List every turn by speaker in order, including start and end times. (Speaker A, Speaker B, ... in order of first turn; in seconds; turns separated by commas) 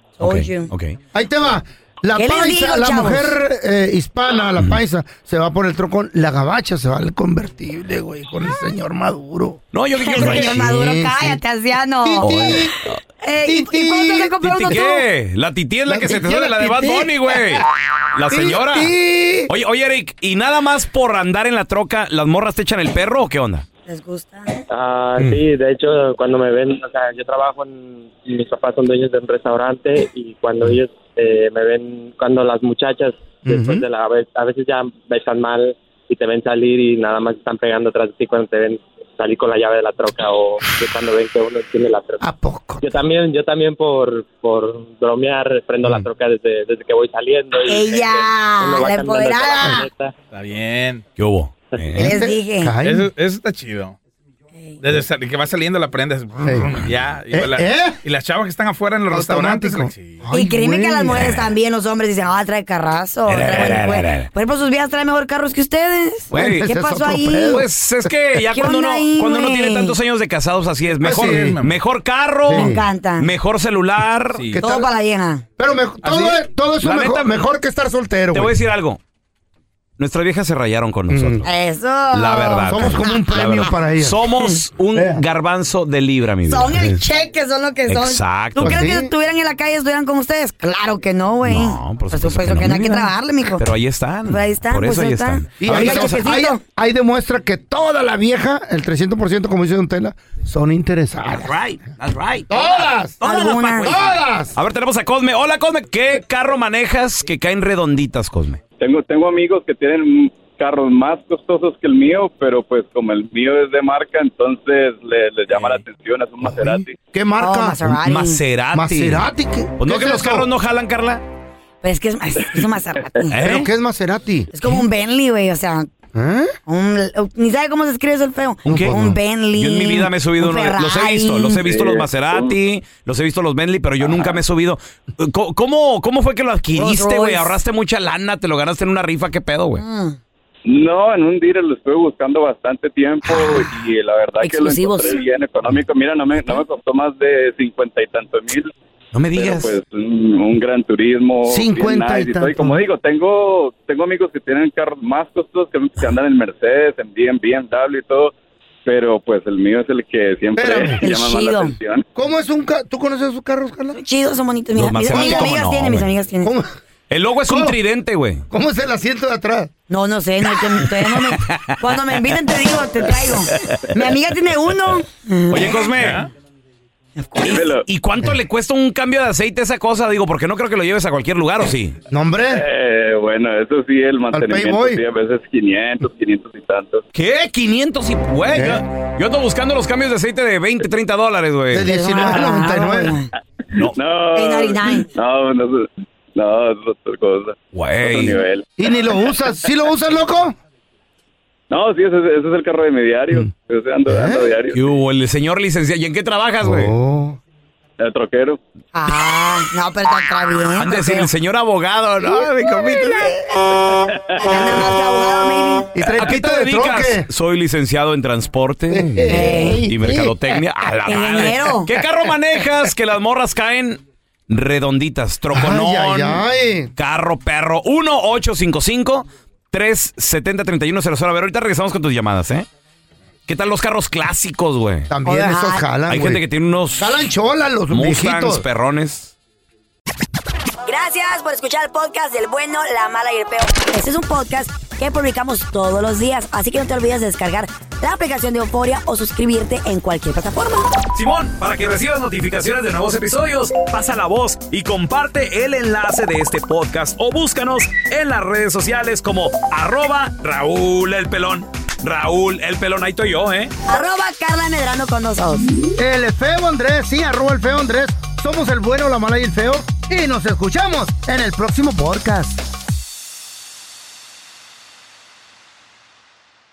Speaker A: 0.2-0.7, Speaker B: 0.2-1.0, Speaker C: 1.1-11.4, Speaker A: 2.1-3.4, Speaker B: 9.7-10.6, Speaker A: 10.0-12.7, Speaker C: 12.0-12.8, Speaker B: 12.2-13.0, Speaker A: 13.2-15.0, Speaker C: 13.4-14.8, Speaker B: 14.4-18.9, Speaker C: 15.9-17.7, Speaker C: 18.3-19.5, Speaker B: 19.5-23.7, Speaker A: 23.9-24.6, Speaker D: 24.7-42.2, Speaker C: 33.5-33.8, Speaker C: 42.2-42.9, Speaker D: 42.8-50.1, Speaker A: 47.7-49.9, Speaker E: 50.3-51.0, Speaker B: 51.2-52.2, Speaker C: 52.0-53.1, Speaker A: 52.0-52.8, Speaker E: 52.8-54.0, Speaker E: 54.8-60.2, Speaker C: 56.4-58.0, Speaker C: 59.1-61.3, Speaker A: 60.3-67.6, Speaker B: 61.1-61.5, Speaker B: 63.3-64.3, Speaker B: 66.3-66.7, Speaker C: 66.3-67.7, Speaker B: 67.4-74.7, Speaker A: 68.5-70.0, Speaker C: 71.0-71.6, Speaker E: 71.1-71.8, Speaker C: 72.5-72.8, Speaker A: 72.5-73.3, Speaker E: 74.3-74.7, Speaker A: 74.6-75.5, Speaker C: 75.6-78.6, Speaker E: 76.0-76.4, Speaker B: 76.8-77.5, Speaker B: 78.3-79.0, Speaker B: 80.0-81.5, Speaker C: 81.1-81.5, Speaker A: 81.5-83.6, Speaker B: 82.1-86.8, Speaker C: 82.7-84.2, Speaker C: 85.0-85.2, Speaker A: 86.5-93.7, Speaker C: 86.7-87.0, Speaker B: 87.9-88.8, Speaker C: 88.6-89.1, Speaker B: 91.4-96.3, Speaker A: 94.3-96.6, Speaker C: 95.6-101.6, Speaker B: 101.3-108.6, Speaker C: 102.5-103.2, Speaker A: 103.2-104.0, Speaker C: 103.8-104.6, Speaker F: 108.8-117.0, Speaker C: 116.4-118.0, Speaker A: 117.4-118.4, Speaker B: 118.0-119.2, Speaker C: 118.7-120.5, Speaker B: 119.8-121.2, Speaker A: 121.8-123.3, Speaker B: 123.3-123.7, Speaker C: 123.3-124.8, Speaker A: 124.5-125.9, Speaker C: 126.1-126.5, Speaker A: 126.7-131.6, Speaker B: 128.7-128.9, Speaker C: 128.7-129.2, Speaker B: 129.6-139.8, Speaker F: 131.6-132.6, Speaker F: 134.0-134.3, Speaker A: 136.8-137.6, Speaker A: 139.8-140.2, Speaker F: 140.7-148.7, Speaker A: 144.4-145.2, Speaker B: 149.1-149.7, Speaker F: 149.3-158.3, Speaker C: 151.5-152.8, Speaker F: 158.9-162.1, Speaker C: 160.6-161.0, Speaker A: 161.0-161.8, Speaker C: 162.2-164.0, Speaker A: 164.0-166.5, Speaker B: 164.8-166.1, Speaker C: 165.1-165.5, Speaker C: 166.4-166.8, Speaker B: 167.1-168.4, Speaker C: 167.4-167.8, Speaker C: 168.5-169.7, Speaker A: 169.9-175.9, Speaker B: 171.0-172.0, Speaker B: 173.5-174.0, Speaker B: 175.5-176.3, Speaker E: 175.9-176.3, Speaker A: 177.2-177.5, Speaker B: 177.4-182.0, Speaker F: 177.4-177.9, Speaker C: 182.1-182.6, Speaker F: 182.5-187.0, Speaker C: 184.3-185.0, Speaker B: 187.1-191.9, Speaker C: 188.5-188.8, Speaker C: 191.7-193.2, Speaker A: 191.9-193.3, Speaker F: 193.7-199.5, Speaker A: 194.3-195.1, Speaker B: 197.7-198.4, Speaker C: 198.8-200.6, Speaker F: 201.7-204.9, Speaker C: 204.1-204.6, Speaker B: 204.7-206.9, Speaker C: 206.6-207.4, Speaker F: 208.0-208.6, Speaker A: 208.9-211.3, Speaker B: 210.8-213.4, Speaker F: 214.1-214.4, Speaker A: 214.4-216.0, Speaker C: 215.9-217.3, Speaker B: 216.1-226.4, Speaker C: 218.9-220.6, Speaker A: 219.3-219.8, Speaker A: 221.1-221.9, Speaker C: 225.5-226.9, Speaker B: 227.0-232.7, Speaker B: 233.5-235.1, Speaker C: 235.1-236.4, Speaker A: 235.2-235.8, Speaker B: 236.1-237.3, Speaker C: 237.0-238.7, Speaker B: 237.9-239.3, Speaker A: 240.9-250.9, Speaker B: 251.1-263.7, Speaker A: 263.9-265.7, Speaker C: 265.9-272.6